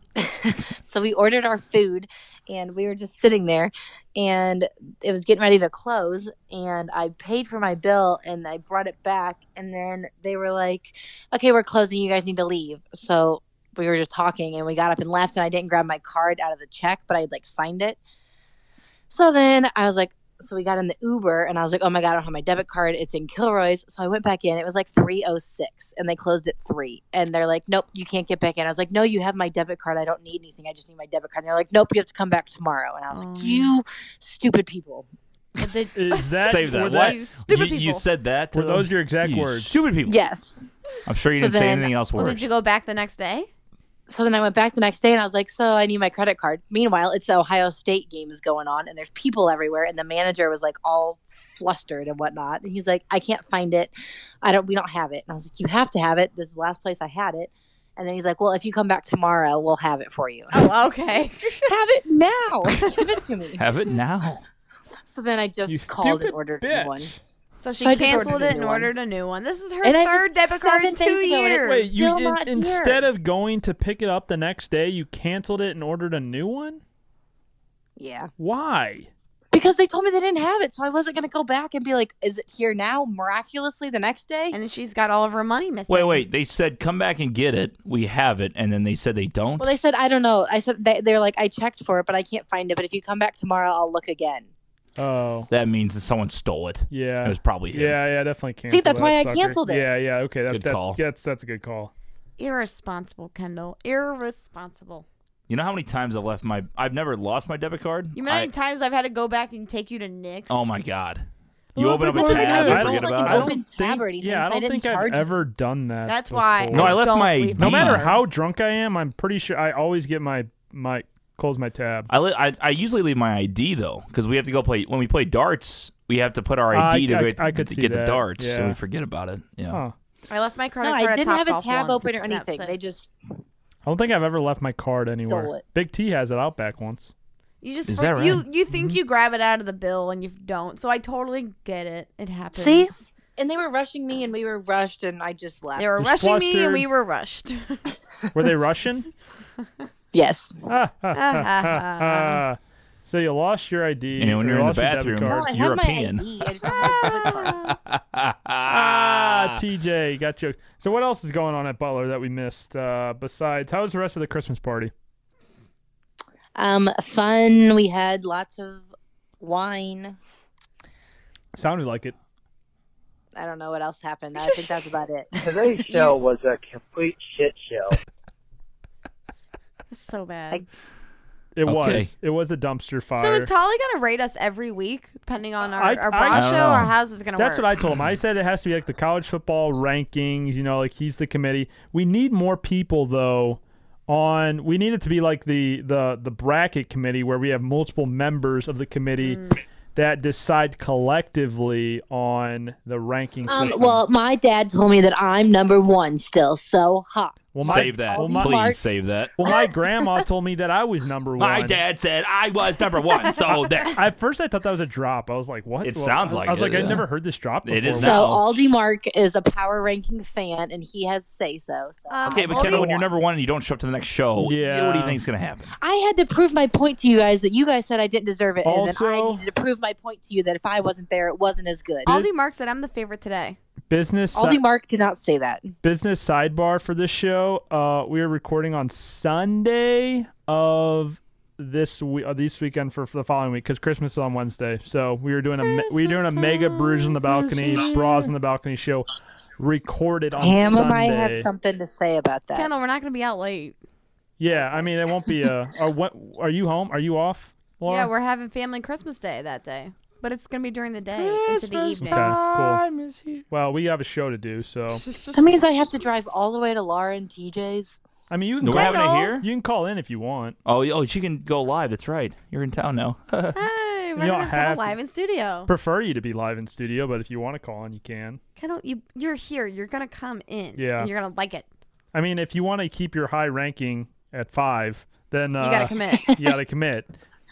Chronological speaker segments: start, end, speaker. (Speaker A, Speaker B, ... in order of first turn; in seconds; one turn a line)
Speaker A: 0.1-18.0
Speaker A: 19.1-35.1
Speaker B: 33.1-33.7
Speaker B: 35.6-38.0
Speaker C: 35.9-37.2
Speaker D: 36.4-40.2
Speaker C: 38.5-39.9
Speaker A: 40.0-40.6
Speaker D: 41.0-42.4
Speaker A: 41.3-41.9
Speaker B: 42.1-43.5
Speaker A: 44.1-60.6
Speaker B: 60.5-61.7
Speaker A: 61.7-63.6
Speaker D: 63.6-64.3
Speaker A: 65.0-67.1
Speaker C: 65.7-67.2
Speaker B: 67.6-71.9
Speaker A: 67.8-68.9
Speaker A: 69.8-73.0
Speaker C: 71.7-76.8
Speaker A: 78.0-78.3
Speaker C: 78.4-79.1
Speaker A: 79.5-84.6
Speaker B: 84.5-86.2
Speaker D: 85.9-89.7
Speaker A: 89.6-94.5
Speaker C: 95.0-95.5
Speaker D: 95.5-98.0
Speaker C: 96.9-101.9
Speaker A: 98.7-99.8
Speaker D: 100.5-101.0
Speaker B: 102.4-105.0
Speaker D: 105.5-108.5
Speaker B: 108.1-110.7
Speaker D: 110.5-113.6
Speaker B: 111.8-113.0
Speaker A: 111.9-115.3
Speaker C: 112.1-122.1
Speaker B: 116.1-118.2
Speaker D: 116.7-118.1
Speaker D: 122.1-129.8
Speaker C: 126.7-128.8
Speaker C: 129.7-129.9
Speaker B: 130.3-132.7
Speaker A: 130.8-133.1
Speaker C: 133.8-137.1
Speaker A: 135.3-135.6
Speaker B: 137.6-143.0
Speaker D: 137.9-138.4
Speaker A: 142.5-145.9
Speaker B: 145.8-147.9
Speaker C: 146.0-146.9
Speaker C: 148.3-149.1
Speaker A: 150.1-150.6
Speaker C: 150.7-155.5
Speaker B: 151.1-152.4
Speaker D: 154.2-159.6
Speaker A: 155.2-157.6
Speaker B: 156.6-157.8
Speaker C: 158.7-164.9
Speaker A: 166.6-168.9
Speaker A: 169.4-170.2
Speaker C: 171.5-172.1
Speaker A: 173.3-175.6
Speaker B: 174.3-174.8
Speaker E: 175.4-177.9
Speaker B: 175.9-176.2
Speaker B: 179.9-180.6
Speaker C: 181.5-183.5
Speaker D: 181.7-182.1
Speaker B: 183.2-187.7
Speaker C: 185.7-186.6
Speaker D: 186.3-186.9
Speaker C: 187.4-199.4
Speaker B: 199.2-199.5
Speaker C: 199.9-204.0
Speaker A: 203.5-208.8
Speaker C: 207.5-208.6
Speaker D: 207.6-209.3
Speaker C: 209.4-211.8
Speaker D: 211.4-214.0
Speaker C: 213.8-218.3
Speaker D: 215.8-217.1
Speaker D: 217.6-218.4
Speaker A: 218.0-222.9
Speaker B: 222.1-223.1
Speaker D: 222.3-225.7
Speaker C: 224.4-225.2
Speaker A: 225.8-232.2
Speaker C: 228.6-229.5
Speaker B: 232.1-233.6
Speaker C: 233.9-234.6
Speaker A: 234.3-235.7
Speaker C: 235.8-251.5
Speaker B: 245.6-247.2
Speaker A: 247.3-248.3
Speaker A: 250.3-252.7
Speaker B: 252.5-253.8
Speaker C: 254.4-258.1
Speaker B: 254.5-254.9
Speaker B: 257.9-262.4
Speaker D: 261.1-263.4
Speaker C: 262.0-262.8
Speaker C: 263.5-265.0
Speaker B: 264.9-265.6
Speaker A: 265.3-268.0
Speaker C: 268.3-270.6
Speaker D: 268.6-269.4
Speaker B: 268.7-269.4
Speaker D: 270.6-273.6
Speaker B: 273.5-275.7
Speaker C: 274.2-274.9
Speaker C: 275.7-278.4
Speaker B: 278.6-281.7
Speaker C: 280.8-281.1
Speaker C: 282.1-287.1
Speaker B: 285.6-286.3